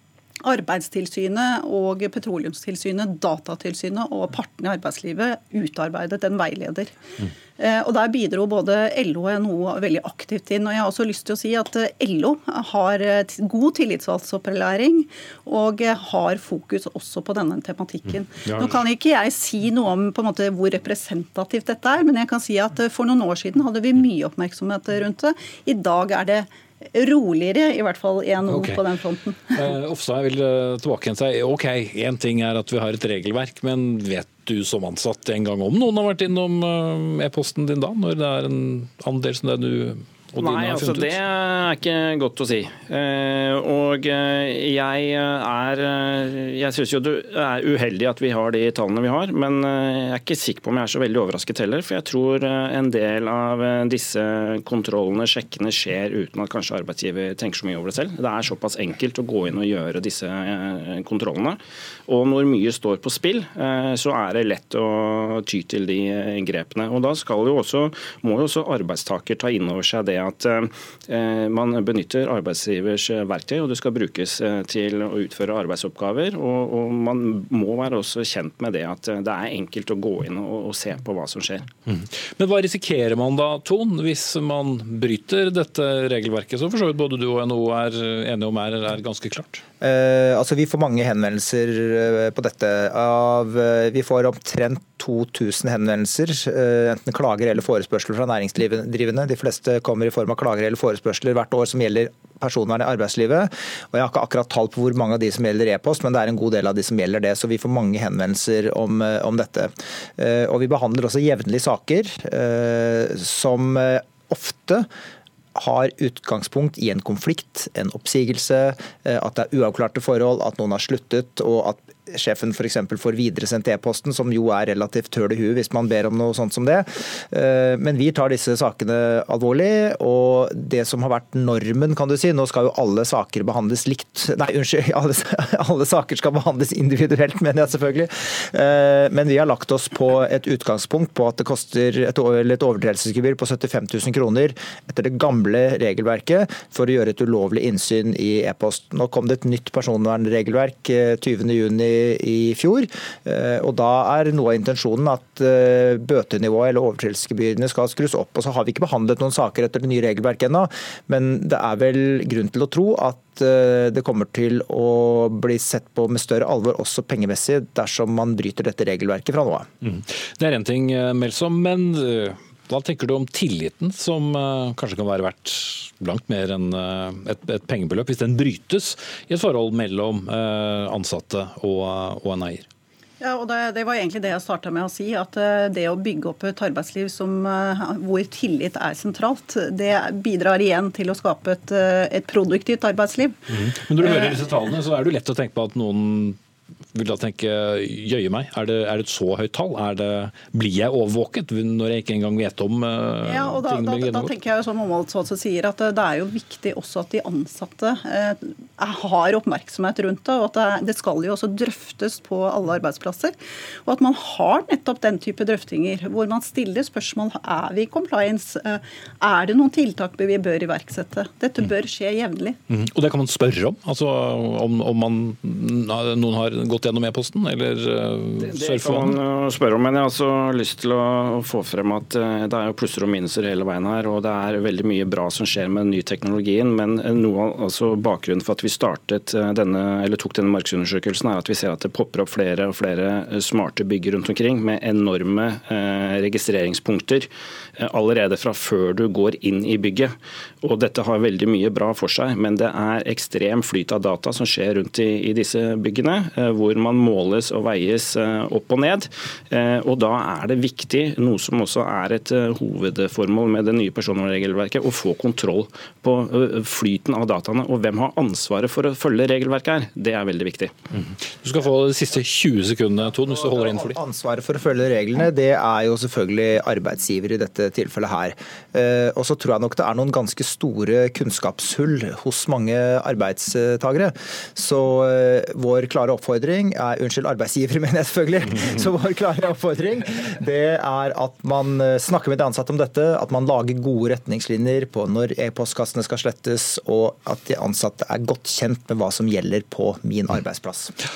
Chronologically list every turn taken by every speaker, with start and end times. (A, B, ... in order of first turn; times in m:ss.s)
0:00.4-0:07.0 A
0:07.6-0:29.7 A
0:18.4-0:18.8 B
0:28.5-0:28.9 B
0:29.5-0:41.2 B
0:40.4-1:21.7 C
1:21.9-1:29.6 B
1:29.8-1:54.9 D
1:55.6-2:49.7 D
2:49.8-3:02.7 B
3:03.2-3:13.4 A
3:13.5-3:16.4 B
3:14.0-3:14.5 A
3:16.9-3:24.4 B
3:23.2-3:42.6 A
3:42.7-3:49.2 B
3:48.4-4:30.8 C
4:31.0-4:34.0 B
4:34.0-5:00.9 D